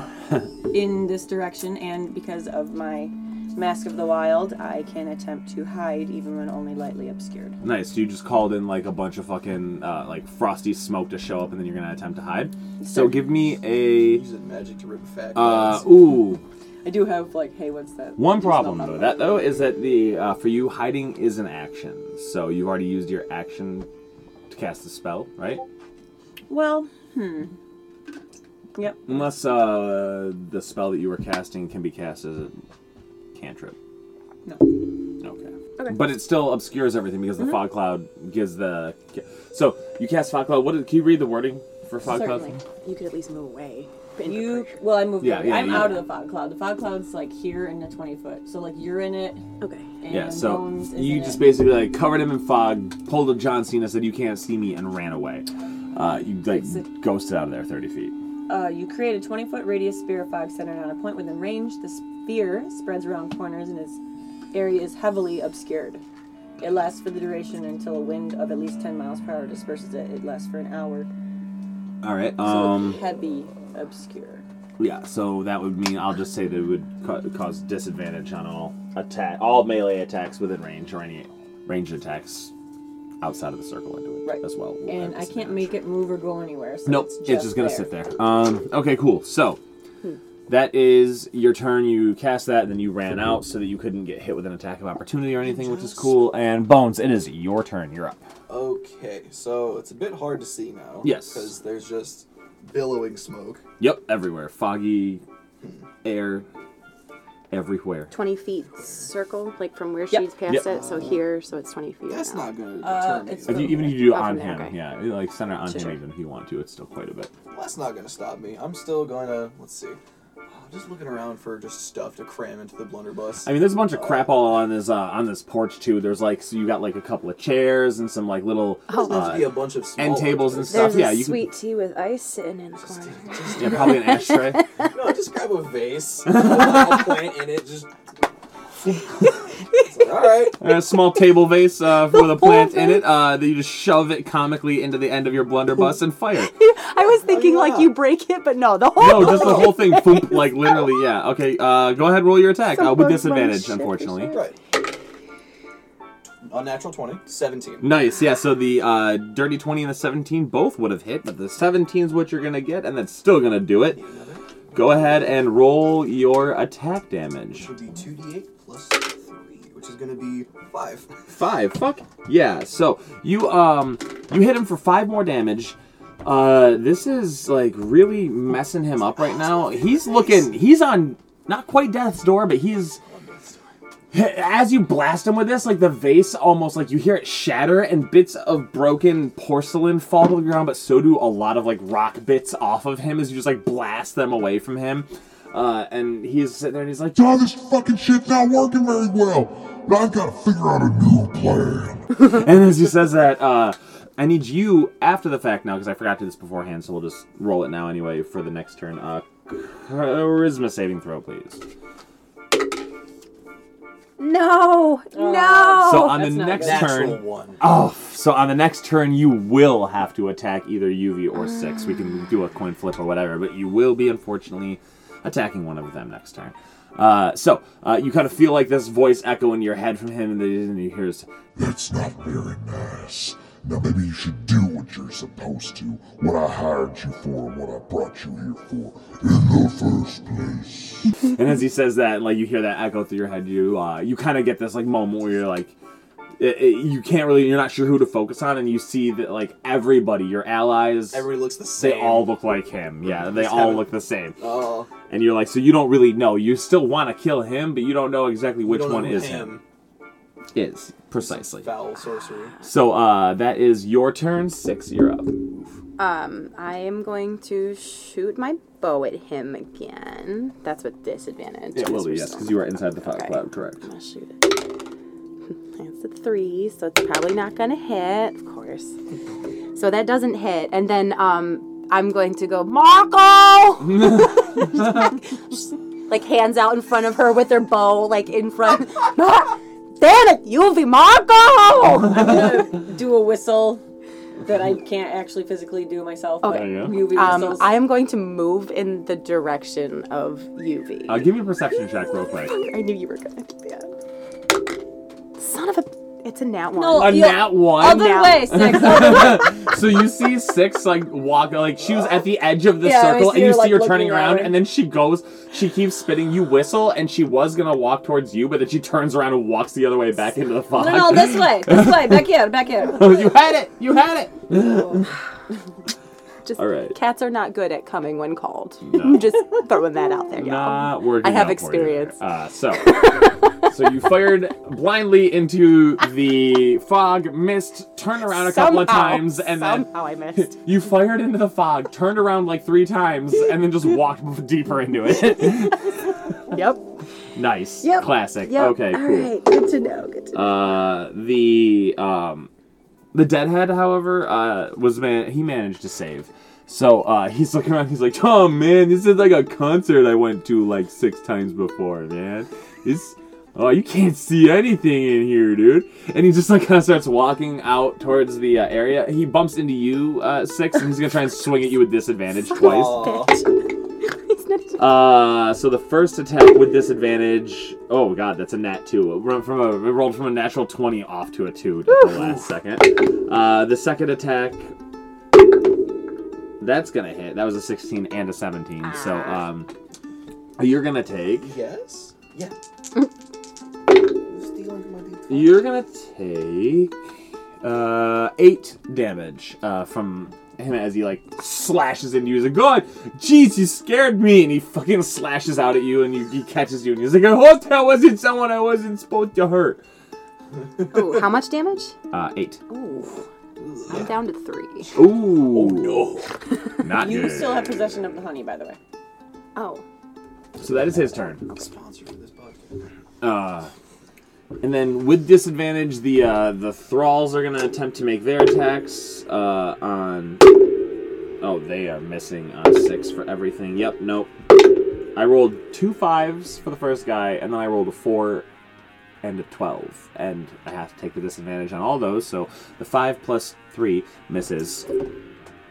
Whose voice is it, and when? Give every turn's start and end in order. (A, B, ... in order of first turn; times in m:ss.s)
0:00.7-0:07.6 A
0:07.6-0:14.2 B
0:12.8-0:13.2 A
0:14.0-0:15.9 C
0:15.4-0:16.4 B
0:16.8-0:19.0 A
0:18.2-0:23.9 B
0:24.5-0:25.6 B
0:26.5-0:27.5 A
0:28.8-0:29.2 A
0:29.1-0:32.5 B
0:33.4-0:33.8 B
0:35.2-0:42.5 B
0:42.1-0:42.6 A
0:42.8-0:44.8 D
0:44.2-0:49.4 A
0:45.2-0:46.0 B
0:49.6-0:49.9 D
0:50.0-0:51.5 A
0:50.1-0:58.1 B
0:56.5-0:56.8 A
0:58.5-1:04.0 A
1:04.5-1:06.0 A
1:06.6-1:11.1 A
1:12.0-1:13.0 B
1:12.4-1:14.4 A
1:14.8-1:22.5 B
1:23.2-1:25.7 B
1:24.2-1:27.9 A
1:26.9-1:29.6 B
1:30.5-1:38.2 B
1:35.4-1:36.1 C
1:38.5-1:43.6 C
1:41.0-1:41.5 B
1:43.8-1:45.2 B
1:46.0-1:46.5 B
1:47.5-1:48.1 B
1:48.1-1:52.5 D
1:48.8-1:49.0 C
1:50.5-1:51.2 C
1:52.1-1:53.7 C
1:52.8-1:53.9 A
1:53.5-1:57.3 B
1:53.6-1:54.7 D
1:57.5-2:00.0 C
2:00.5-2:04.3 C
2:03.4-2:11.5 B
2:08.9-2:09.2 D
2:08.9-2:11.2 C
2:10.7-2:14.8 D
2:12.8-2:14.3 C
2:13.6-2:14.6 B
2:14.8-2:17.9 C
2:16.3-2:17.0 B
2:19.8-2:20.6 C
2:20.6-2:26.5 B
2:22.1-2:23.0 D
2:26.5-2:30.9 D
2:27.0-2:28.0 C
2:29.0-2:34.4 B
2:29.1-2:29.7 C
2:32.7-2:34.4 D
2:34.3-2:34.6 C
2:36.4-2:37.9 C
2:37.8-2:44.0 B
2:43.9-2:45.2 C
2:44.7-2:47.7 B
2:47.6-2:51.4 C
2:51.3-3:03.0 B
2:59.2-3:00.5 C
3:03.0-3:03.7 C
3:04.1-3:17.2 B
3:17.2-3:22.2 E
3:22.2-3:31.6 B
3:34.2-3:36.1 D
3:35.1-3:36.9 A
3:35.8-3:51.3 B
3:36.6-3:37.6 C
3:51.6-4:01.1 E
4:01.3-4:05.7 B
4:06.4-4:11.3 B
4:11.1-4:12.3 C
4:11.8-4:14.4 B
4:13.1-4:14.9 C
4:15.1-4:19.6 B
4:18.6-4:19.6 C
4:20.6-4:21.7 B
4:21.2-4:22.6 C
4:22.6-4:25.3 B
4:26.0-4:34.6 D
4:31.7-4:33.9 B
4:35.8-4:39.0 D
4:39.8-4:52.7 D
4:43.8-4:45.1 B
4:51.8-4:52.7 B
4:52.1-4:53.8 A
4:54.4-4:57.8 A
4:56.4-5:01.3 D
4:56.5-4:57.0 B
5:01.1-5:02.6 B
5:02.4-5:03.9 D
5:05.4-5:09.1 D
5:06.7-5:09.6 A
5:07.0-5:22.2 B
5:12.8-5:14.5 A
5:20.7-5:23.1 A
5:22.9-5:25.1 B
5:26.5-5:32.2 D
5:26.6-5:27.0 B
5:28.9-5:29.3 B
5:30.4-5:33.0 B
5:33.7-5:46.4 B
5:38.3-5:40.5 D
5:45.4-5:46.9 D
5:47.4-5:49.3 B
5:47.8-5:50.4 D
5:50.3-5:52.5 B
5:53.1-6:13.0 B
6:12.5-6:14.8 D
6:12.5-6:13.3 C
6:14.8-6:24.7 B
6:21.9-6:22.4 D
6:26.6-6:29.7 B
6:28.8-6:29.4 D
6:30.6-6:31.5 B
6:31.4-6:32.5 C
6:34.3-6:35.6 C
6:35.3-6:37.0 B
6:37.6-6:49.8 B
6:50.8-6:51.1 C
6:50.9-6:52.0 D
6:52.1-6:52.6 B
6:52.7-6:53.3 D
6:53.6-6:54.2 C
6:53.9-6:54.9 D
6:54.9-6:56.3 C
6:55.0-6:56.1 B
6:56.8-6:57.6 B
6:57.0-6:58.8 A
6:59.6-6:59.8 D
7:00.6-7:01.4 B
7:01.4-7:02.8 C
7:03.2-7:03.7 B
7:04.6-7:10.4 B
7:11.4-7:14.3 B
7:15.2-7:18.5 B
7:19.2-7:24.9 B